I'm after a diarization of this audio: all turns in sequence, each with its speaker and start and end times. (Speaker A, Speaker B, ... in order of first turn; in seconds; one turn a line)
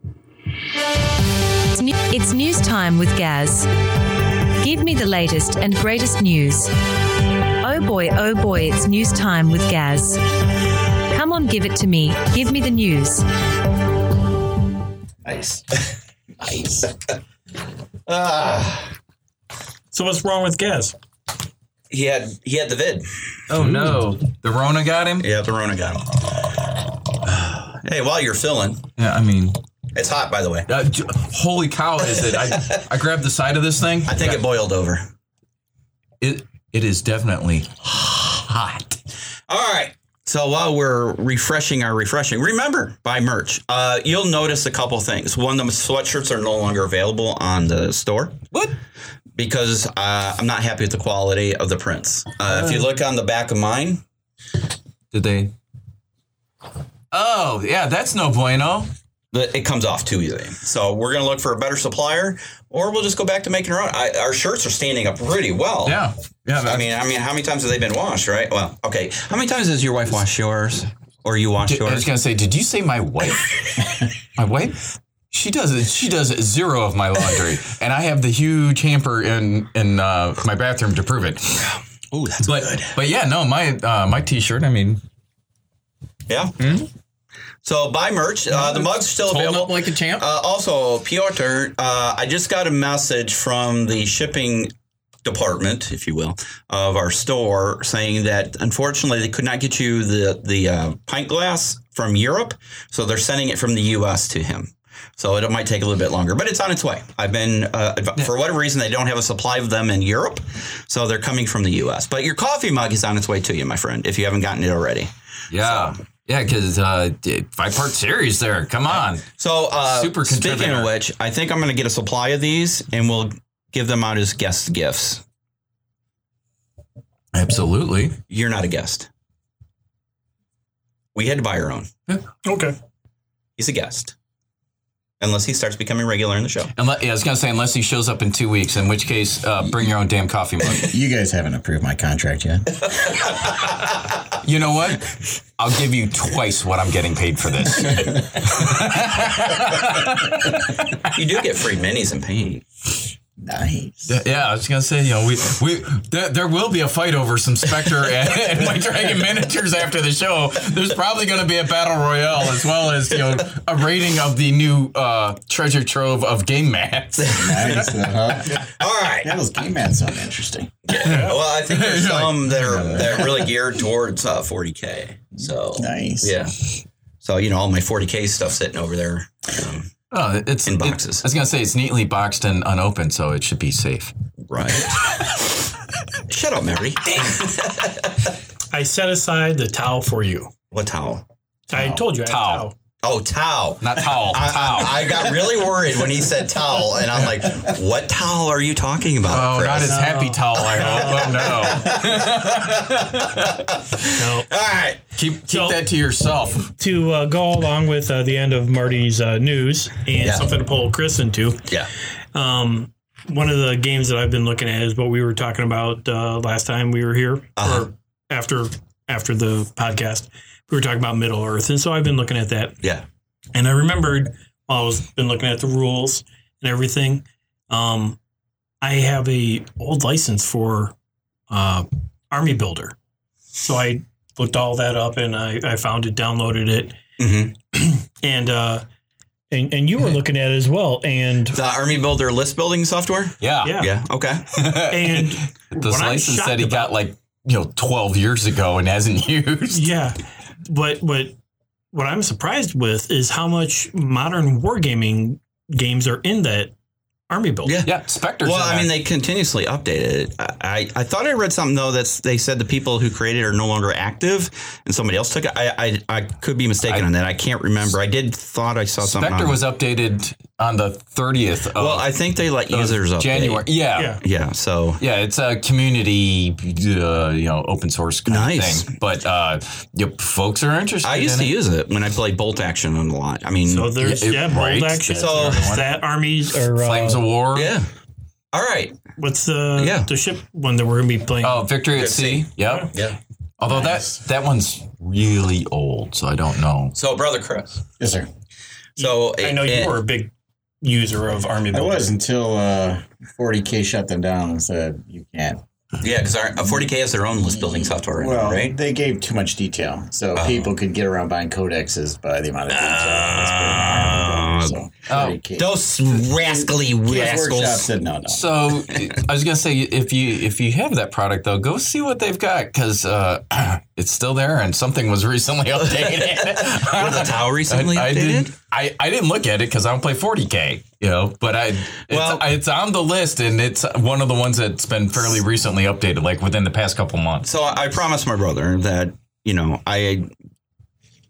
Speaker A: 1.7-3.7
Speaker A: 4.6-6.7
Speaker A: 7.5-10.2
Speaker A: 11.1-13.3
Speaker B: 15.2-15.8
Speaker B: 16.4-16.9
Speaker C: 18.1-18.9
Speaker D: 19.9-20.9
Speaker C: 21.9-23.1
Speaker E: 23.5-25.3
Speaker C: 25.2-26.1
Speaker E: 27.3-27.5
Speaker C: 27.5-28.8
Speaker E: 29.0-29.6
Speaker C: 29.9-30.7
Speaker E: 30.7-34.4
Speaker C: 32.3-32.8
Speaker C: 34.1-35.1
Speaker E: 36.2-39.0
Speaker C: 39.5-48.5
Speaker C: 49.4-54.0
Speaker E: 52.5-52.9
Speaker E: 55.1-55.5
Speaker E: 57.1-58.9
Speaker C: 59.3-66.0
Speaker E: 65.8-66.9
Speaker C: 66.6-72.1
Speaker E: 71.7-81.7
Speaker C: 82.1-83.0
Speaker E: 82.4-85.0
Speaker C: 86.3-86.5
Speaker E: 86.6-86.9
Speaker C: 87.6-94.7
Speaker E: 88.5-90.3
Speaker C: 95.2-116.0
Speaker E: 115.5-119.2
Speaker C: 119.3-125.2
Speaker E: 119.8-120.9
Speaker E: 127.3-128.2
Speaker C: 128.3-129.1
Speaker C: 131.1-131.9
Speaker D: 132.4-132.8
Speaker C: 133.6-134.1
Speaker C: 135.2-136.7
Speaker E: 136.7-140.9
Speaker B: 140.8-143.4
Speaker E: 144.4-151.1
Speaker C: 151.1-152.6
Speaker B: 153.4-154.2
Speaker E: 154.1-168.0
Speaker C: 167.2-167.9
Speaker B: 167.3-168.7
Speaker C: 168.5-169.4
Speaker B: 169.2-170.8
Speaker C: 170.9-176.7
Speaker E: 170.9-173.1
Speaker D: 171.1-171.3
Speaker B: 172.5-173.5
Speaker B: 175.8-176.3
Speaker C: 177.2-179.9
Speaker E: 180.1-184.1
Speaker C: 180.6-181.3
Speaker C: 184.5-184.9
Speaker C: 186.3-188.3
Speaker D: 188.7-190.5
Speaker C: 190.7-191.2
Speaker D: 191.7-192.7
Speaker E: 192.2-192.7
Speaker C: 193.0-200.0
Speaker E: 193.8-195.3
Speaker E: 199.2-203.7
Speaker D: 199.8-201.7
Speaker C: 200.6-205.0
Speaker D: 204.1-204.5
Speaker E: 205.2-206.7
Speaker D: 205.5-205.8
Speaker D: 206.8-211.7
Speaker C: 210.2-210.5
Speaker D: 212.3-222.8
Speaker C: 217.6-217.9
Speaker D: 223.5-228.2
Speaker D: 228.8-230.9
Speaker D: 231.5-232.9
Speaker D: 233.6-237.0
Speaker C: 237.2-237.5
Speaker D: 237.7-238.8
Speaker D: 239.5-241.6
Speaker C: 241.5-244.5
Speaker E: 243.4-243.9
Speaker D: 243.6-243.9
Speaker E: 244.5-249.9
Speaker D: 244.9-246.9
Speaker D: 249.7-251.3
Speaker D: 251.9-256.7
Speaker D: 257.3-257.8
Speaker C: 257.6-269.6
Speaker E: 257.8-258.9
Speaker E: 266.8-267.1
Speaker E: 269.0-272.1
Speaker C: 271.8-273.6
Speaker E: 272.7-274.2
Speaker D: 273.9-274.2
Speaker C: 274.2-275.0
Speaker E: 275.0-281.5
Speaker C: 278.3-278.9
Speaker C: 281.0-283.9
Speaker D: 283.6-287.2
Speaker E: 284.0-285.9
Speaker C: 285.1-285.7
Speaker E: 286.8-287.7
Speaker C: 287.5-287.9
Speaker C: 288.5-289.0
Speaker D: 289.2-291.7
Speaker C: 289.8-290.1
Speaker E: 291.4-292.9
Speaker C: 291.9-293.2
Speaker E: 293.6-296.9
Speaker B: 293.6-294.2
Speaker C: 296.9-297.8
Speaker B: 298.0-298.3
Speaker C: 299.0-300.0
Speaker D: 299.0-302.1
Speaker B: 301.7-305.6
Speaker C: 306.0-308.7
Speaker B: 306.6-318.5
Speaker C: 310.4-310.7
Speaker C: 312.7-314.8
Speaker E: 315.1-315.4
Speaker C: 315.6-317.9
Speaker E: 318.3-337.5
Speaker C: 326.0-328.5
Speaker C: 332.1-332.4
Speaker C: 337.4-340.3